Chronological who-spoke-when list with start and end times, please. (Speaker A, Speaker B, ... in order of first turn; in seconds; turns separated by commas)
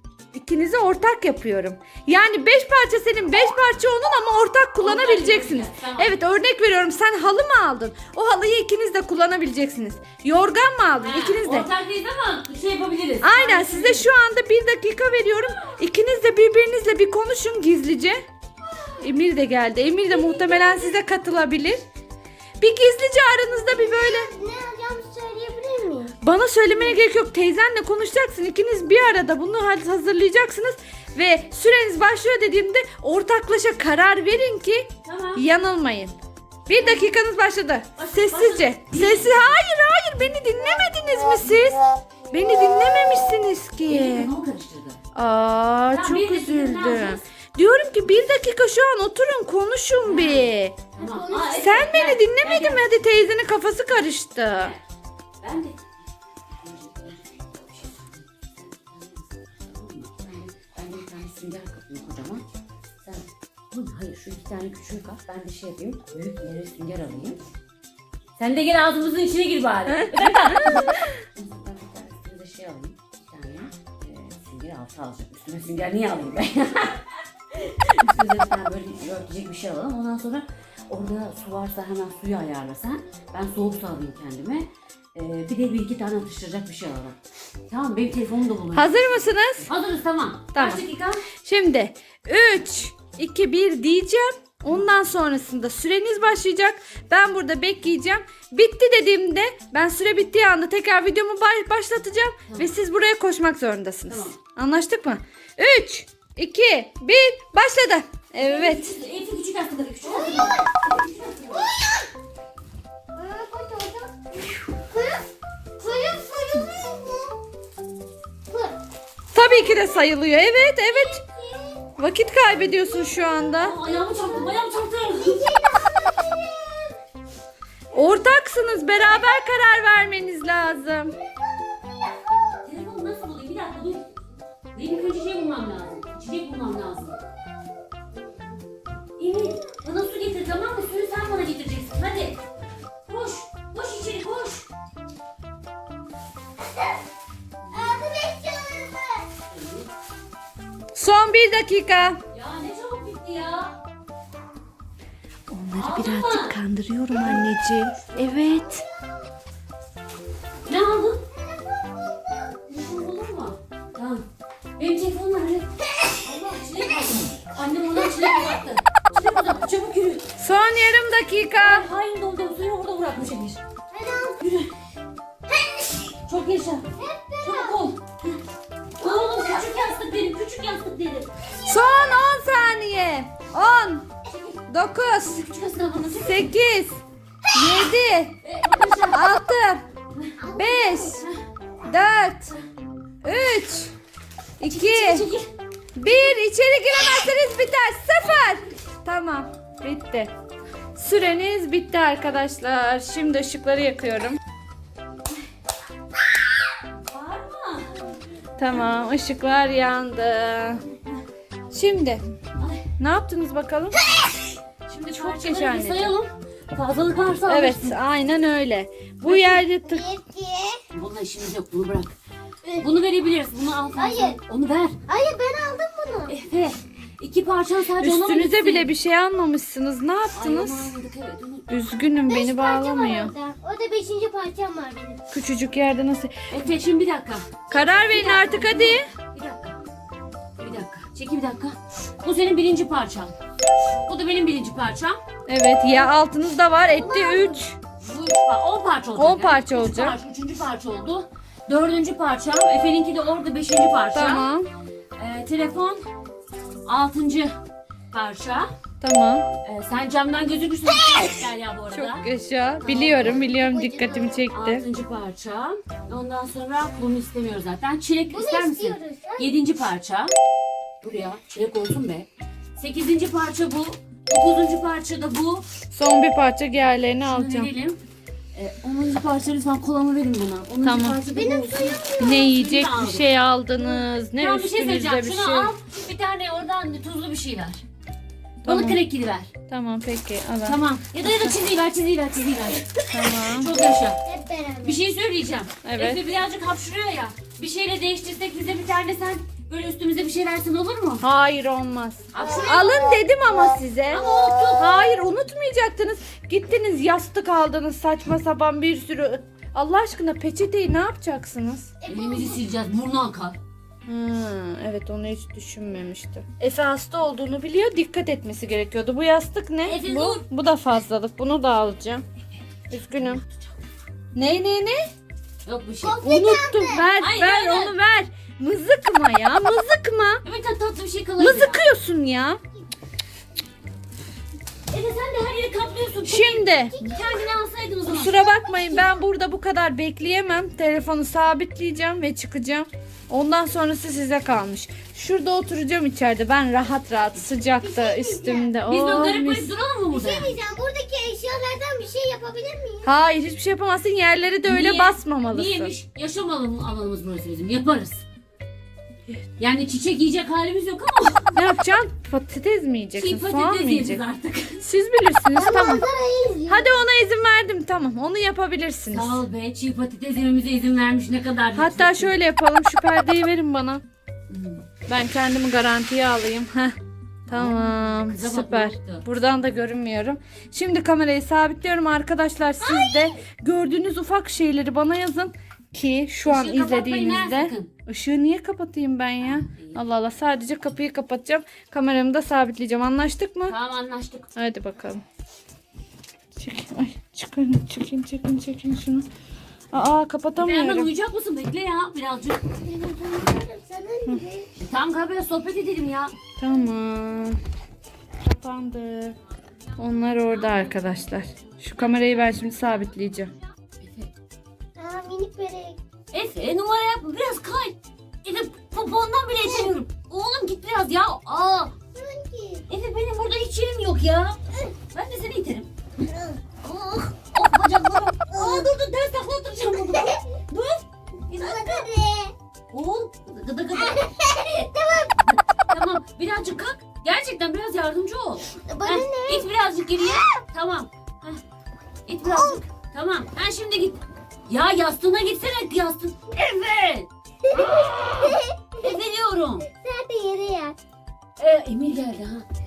Speaker A: 0.3-11.7, Speaker B: 4.8-6.2, Speaker B: 11.0-14.1, Speaker A: 13.2-18.2, Speaker C: 18.7-19.0, Speaker A: 19.0-21.8, Speaker C: 20.1-21.0, Speaker A: 22.6-24.3, Speaker C: 23.7-26.1, Speaker A: 26.2-36.1, Speaker B: 35.0-35.4, Speaker A: 36.7-44.4, Speaker B: 38.0-39.5, Speaker B: 43.9-45.0, Speaker A: 45.1-50.8, Speaker B: 45.9-47.2, Speaker B: 50.0-52.9, Speaker C: 51.0-51.8, Speaker A: 51.5-54.7, Speaker B: 55.4-55.9, Speaker B: 56.6-62.4, Speaker B: 63.0-67.4, Speaker B: 68.4-87.2, Speaker A: 70.1-71.0, Speaker B: 87.7-91.2, Speaker A: 88.7-89.7, Speaker A: 90.5-90.9, Speaker A: 91.4-109.0, Speaker B: 102.5-102.7, Speaker B: 104.1-104.4, Speaker B: 108.4-111.7, Speaker C: 110.0-110.7, Speaker C: 111.5-112.0, Speaker C: 113.1-115.3, Speaker C: 115.8-117.4, Speaker C: 118.5-118.8, Speaker A: 119.3-121.2, Speaker C: 119.3-120.0, Speaker C: 120.9-121.8, Speaker A: 122.0-123.8, Speaker B: 123.6-125.5, Speaker C: 123.9-124.6, Speaker C: 125.2-127.0, Speaker A: 127.9-131.2, Speaker B: 132.6-137.2, Speaker B: 139.2-142.4, Speaker B: 143.1-144.7, Speaker C: 147.7-149.3, Speaker B: 149.5-149.9, Speaker A: 150.9-152.2, Speaker B: 152.3-153.8, Speaker A: 155.5-158.8, Speaker B: 155.8-156.6, Speaker C: 158.1-159.0, Speaker B: 160.7-161.2, Speaker C: 161.3-162.6, Speaker B: 162.7-164.2, Speaker B: 164.8-170.3, Speaker A: 170.4-171.9, Speaker B: 171.5-173.6, Speaker C: 173.9-174.4, Speaker B: 174.4-174.7, Speaker C: 175.5-176.1, Speaker B: 176.2-176.9, Speaker C: 177.0-177.8, Speaker B: 177.4-178.3, Speaker B: 179.0-181.3, Speaker C: 179.0-179.5, Speaker A: 181.6-184.1, Speaker B: 184.3-184.6, Speaker A: 184.7-185.5, Speaker B: 185.2-186.5, Speaker A: 186.2-188.4, Speaker B: 188.4-189.3, Speaker A: 189.1-189.8, Speaker C: 190.4-191.2, Speaker A: 190.5-191.2, Speaker A: 191.8-192.5, Speaker A: 193.2-193.9, Speaker A: 194.6-195.3, Speaker B: 194.6-195.5, Speaker A: 196.0-200.3, Speaker A: 200.9-204.4, Speaker B: 207.1-208.0, Speaker A: 208.6-210.8, Speaker A: 211.7-212.2, Speaker B: 212.6-212.9, Speaker A: 213.0-214.0, Speaker B: 214.9-218.0, Speaker A: 215.1-216.2, Speaker A: 217.5-220.1, Speaker B: 219.2-219.7, Speaker C: 219.8-220.8, Speaker B: 220.9-222.2, Speaker B: 222.8-225.0, Speaker C: 223.9-224.4, Speaker C: 225.1-226.3, Speaker B: 226.3-228.9, Speaker A: 228.0-230.9, Speaker B: 230.3-231.8, Speaker A: 231.7-233.3, Speaker C: 232.3-235.2, Speaker A: 235.3-236.3, Speaker B: 236.5-237.6, Speaker A: 237.7-239.1, Speaker C: 237.7-238.5, Speaker B: 238.1-239.8, Speaker B: 240.6-243.3, Speaker B: 244.1-245.2, Speaker A: 245.5-247.8, Speaker C: 246.8-247.6, Speaker B: 248.0-254.5, Speaker A: 249.2-250.2, Speaker A: 254.1-254.7, Speaker B: 255.2-256.0, Speaker B: 256.9-257.6, Speaker B: 258.1-258.7, Speaker A: 259.0-259.5, Speaker B: 259.6-262.3, Speaker A: 261.9-264.9, Speaker B: 262.8-263.5, Speaker C: 263.4-264.5, Speaker B: 264.5-270.3, Speaker C: 268.3-269.5, Speaker B: 271.0-275.7, Speaker A: 275.9-277.7, Speaker B: 277.2-278.0, Speaker B: 278.5-287.8, Speaker A: 280.8-281.2, Speaker C: 281.3-282.6, Speaker A: 282.2-285.7, Speaker A: 288.6-289.0, Speaker B: 288.6-289.5, Speaker A: 289.7-291.6, Speaker B: 290.6-294.2, Speaker A: 293.1-293.8, Speaker C: 294.2-295.0, Speaker B: 294.8-301.2, Speaker A: 295.8-296.2, Speaker A: 301.2-311.9, Speaker B: 302.3-303.1, Speaker B: 304.1-304.9, Speaker C: 312.0-312.6, Speaker B: 312.1-313.6, Speaker A: 314.1-322.2, Speaker B: 319.8-320.5, Speaker A: 322.9-323.4, Speaker B: 323.0-323.8, Speaker A: 324.4-325.0, Speaker B: 325.6-326.2, Speaker C: 326.0-327.1, Speaker A: 326.2-330.4, Speaker B: 327.2-327.9, Speaker B: 330.4-331.9, Speaker A: 331.4-332.6, Speaker B: 334.9-338.5, Speaker A: 336.2-337.0, Speaker C: 336.9-337.3, Speaker A: 338.1-349.7, Speaker C: 338.5-339.1, Speaker C: 347.6-348.8, Speaker B: 348.9-350.6, Speaker C: 350.1-353.1, Speaker A: 353.1-355.9, Speaker B: 354.6-358.2, Speaker B: 359.6-361.6, Speaker A: 361.5-364.2, Speaker B: 363.1-364.8, Speaker A: 364.8-366.1, Speaker C: 365.5-366.9, Speaker A: 366.7-369.4, Speaker B: 369.1-372.4, Speaker A: 371.8-374.0, Speaker B: 374.5-374.9, Speaker A: 375.1-393.8, Speaker B: 377.5-379.2, Speaker B: 382.8-383.4, Speaker B: 386.4-387.9, Speaker B: 389.4-390.0, Speaker B: 393.7-394.5, Speaker A: 394.6-395.2, Speaker A: 396.6-399.3, Speaker A: 399.9-401.1, Speaker B: 400.6-402.7, Speaker C: 402.8-404.7, Speaker B: 404.8-406.3, Speaker A: 406.6-407.6, Speaker A: 408.4-409.4, Speaker A: 410.0-413.5, Speaker B: 410.5-412.8, Speaker B: 414.0-414.3, Speaker C: 415.0-416.0, Speaker B: 416.3-421.9, Speaker C: 419.6-419.9, Speaker C: 422.1-422.9, Speaker B: 422.9-424.6, Speaker B: 425.1-425.9, Speaker B: 426.8-432.0, Speaker C: 431.6-432.5, Speaker B: 432.9-434.2, Speaker C: 433.9-435.4, Speaker B: 435.4-441.6, Speaker C: 438.9-439.7, Speaker B: 442.3-448.1, Speaker C: 442.5-442.8, Speaker C: 447.7-449.2, Speaker B: 449.0-449.9, Speaker C: 449.8-451.0, Speaker B: 451.6-452.7